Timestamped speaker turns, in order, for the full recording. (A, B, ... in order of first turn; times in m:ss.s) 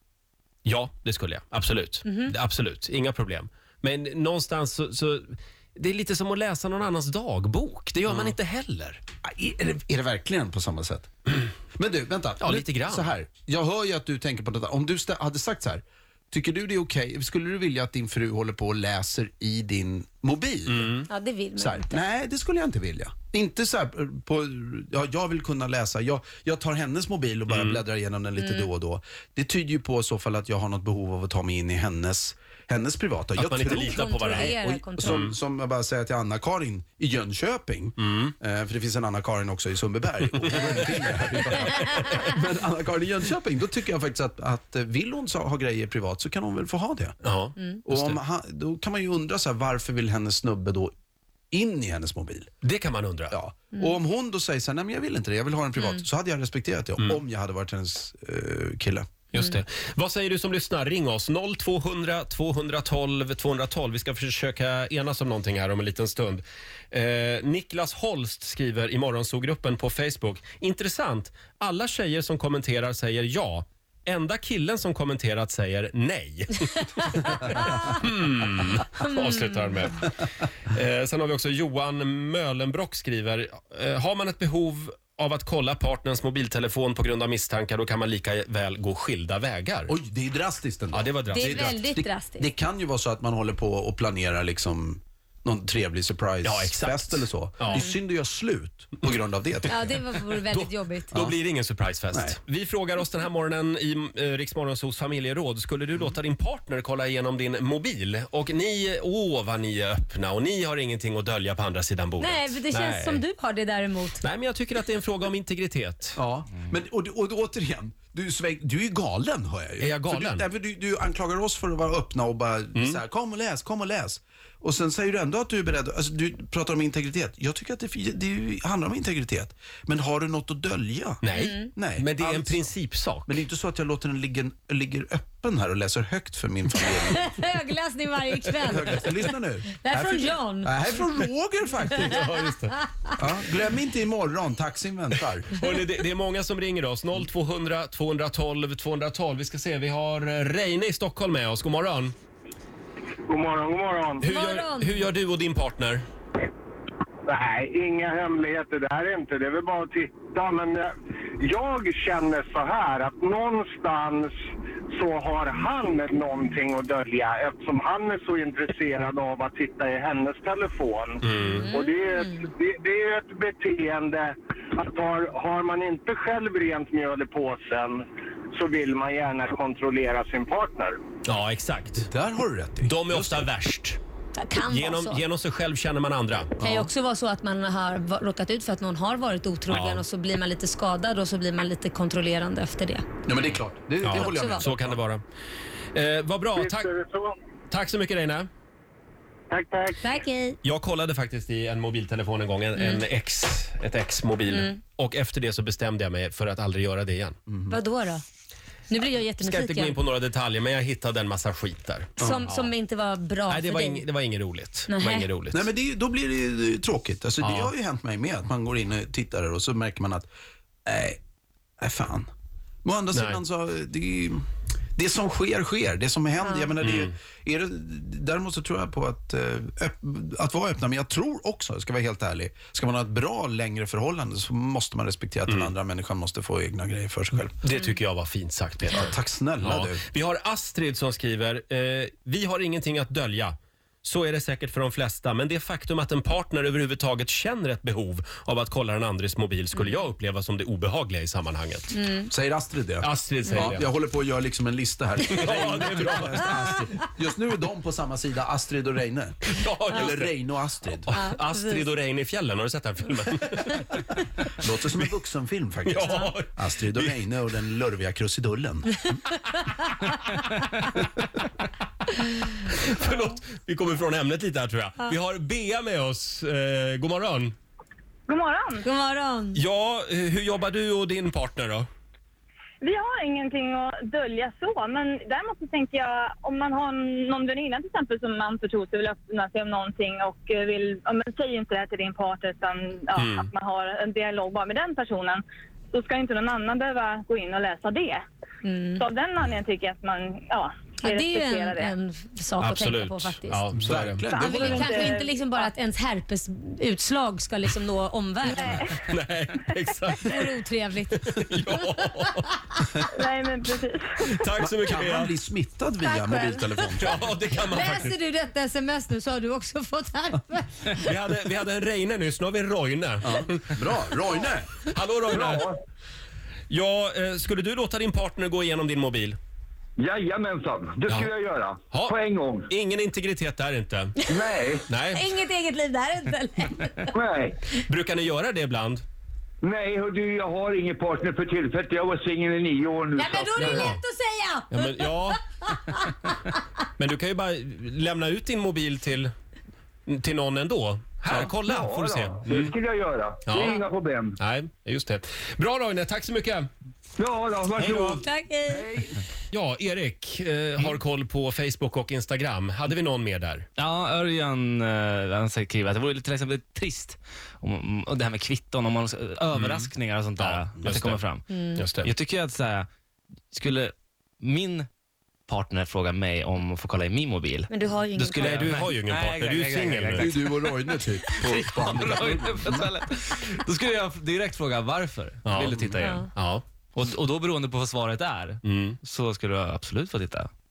0:00.6-0:09.0 A
0:02.0-0:02.3 B
0:08.1-0:08.4 C
0:09.2-0:11.1 C
0:11.7-0:20.9 C
0:12.4-0:13.1 A
0:20.7-0:21.1 A
0:21.1-0:22.0 B
0:21.6-0:47.2 C
0:27.5-0:27.8 A
0:28.4-0:28.7 B
0:33.4-0:35.3 A
0:33.7-0:35.2 B
0:38.0-0:38.3 A
0:40.3-0:40.8 A
0:47.2-0:48.2 A
0:47.8-0:50.9 C
0:51.5-0:52.5 C
0:52.6-0:53.3 A
0:53.3-0:59.1 C
0:55.8-0:56.0 B
0:59.3-1:29.9 A
1:17.5-1:17.9 B
1:19.0-1:19.7 B
1:29.9-1:39.8 C
1:30.9-1:31.8 A
1:31.3-1:32.5 B
1:36.4-1:37.9 A
1:39.7-1:41.1 B
1:40.5-1:53.2 A
1:42.1-1:42.4 C
1:52.2-1:54.2 B
1:54.2-1:56.2 A
1:56.2-2:11.2 C
1:59.8-2:00.5 A
2:02.7-2:03.0 A
2:11.2-2:13.4 A
2:11.3-2:11.7 B
2:11.7-2:12.7 C
2:13.2-2:17.3 C
2:16.8-2:19.1 B
2:18.6-2:22.2 C
2:19.7-2:20.7 B
2:21.9-2:23.1 B
2:22.0-2:22.8 A
2:23.2-2:25.5 C
2:25.5-2:32.1 A
2:33.3-2:34.2 D
2:34.2-2:35.1 B
2:34.2-2:36.0 A
2:37.3-2:44.3 D
2:44.9-3:00.9 D
2:51.2-2:51.7 A
2:51.3-2:52.5 B
3:01.2-3:02.1 A
3:02.0-3:03.5 C
3:02.8-3:04.0 A
3:04.4-3:05.2 B
3:04.6-3:06.5 A
3:06.6-3:06.9 C
3:06.6-3:13.0 B
3:09.7-3:10.0 A
3:13.2-3:15.0 C
3:14.0-3:15.2 A
3:14.1-3:14.6 B
3:15.9-3:16.9 A
3:16.6-3:17.3 D
3:17.7-3:18.5 A
3:19.5-3:20.1 D
3:20.0-3:20.6 B
3:20.6-3:27.4 A
3:22.8-3:23.0 B
3:24.5-3:24.8 B
3:27.5-3:27.8 C
3:27.7-3:28.2 B
3:28.9-3:30.0 B
3:29.4-3:32.7 A
3:32.2-3:34.1 B
3:33.5-3:35.7 A
3:34.9-3:35.3 B
3:35.5-3:40.3 C
3:37.4-3:37.7 A
3:40.8-3:41.2 C
3:41.8-3:42.3 C
3:42.8-3:57.6 C
3:43.1-3:43.4 A
3:46.8-3:47.1 A
3:57.6-4:12.0 A
3:58.9-4:00.0 C
4:12.0-4:12.3 B
4:12.3-4:21.1 C
4:13.0-4:13.9 A
4:13.4-4:13.7 B
4:15.3-4:16.5 A
4:19.5-4:20.3 A
4:21.1-4:24.0 A
4:21.1-4:21.8 B
4:24.6-4:29.1 C
4:25.8-4:27.1 A
4:29.5-4:30.0 B
4:32.6-4:37.6 A
4:38.3-4:38.8 E
4:38.8-4:39.6 B
4:39.5-4:41.9 A
4:42.8-4:58.2 E
4:53.2-4:53.5 A
4:58.6-4:59.0 B
4:59.0-5:01.9 E
5:01.0-5:03.6 B
5:02.6-5:04.2 A
5:03.8-5:05.0 C
5:04.3-5:05.7 E
5:04.3-5:08.9 B
5:08.5-5:08.9 E
5:08.7-5:10.5 A
5:10.2-5:12.2 B
5:11.1-5:13.1 A
5:13.1-5:14.2 E
5:14.3-5:15.3 A
5:14.6-5:17.2 C
5:16.0-5:21.1 B
5:17.0-5:18.1 A
5:21.0-5:23.9 A
5:23.2-5:24.7 C
5:24.8-5:25.7 A
5:25.3-5:25.8 F
5:26.7-5:29.4 A
5:30.0-5:32.7 F
5:31.9-5:32.2 A
5:32.7-5:34.1 A
5:34.2-5:34.5 B
5:34.3-5:34.8 F
5:34.9-5:35.2 A
5:35.1-5:37.1 B
5:37.2-5:37.6 F
5:37.7-5:39.0 A
5:39.6-5:43.6 F
5:43.1-5:45.1 B
5:43.6-5:44.0 A
5:44.7-5:45.4 A
5:45.6-5:46.6 B
5:47.0-5:49.3 A
5:50.1-5:52.8 A
5:51.4-5:54.4 F
5:53.4-5:53.8 A
5:53.5-5:53.8 B
5:54.4-5:56.7 A
5:57.2-5:58.2 F
5:57.8-5:58.2 A
5:58.1-5:59.0 B
5:59.5-6:03.6 A
6:03.8-6:12.9 G
6:09.5-6:11.2 A
6:11.5-6:11.9 B
6:11.8-6:12.1 A
6:13.5-6:14.9 G
6:15.5-6:17.7 G
6:17.7-6:18.6 B
6:18.2-6:20.3 A
6:18.3-6:26.3 G
6:20.1-6:22.9 C
6:25.4-6:26.6 A
6:26.9-6:30.5 G
6:28.6-6:29.0 A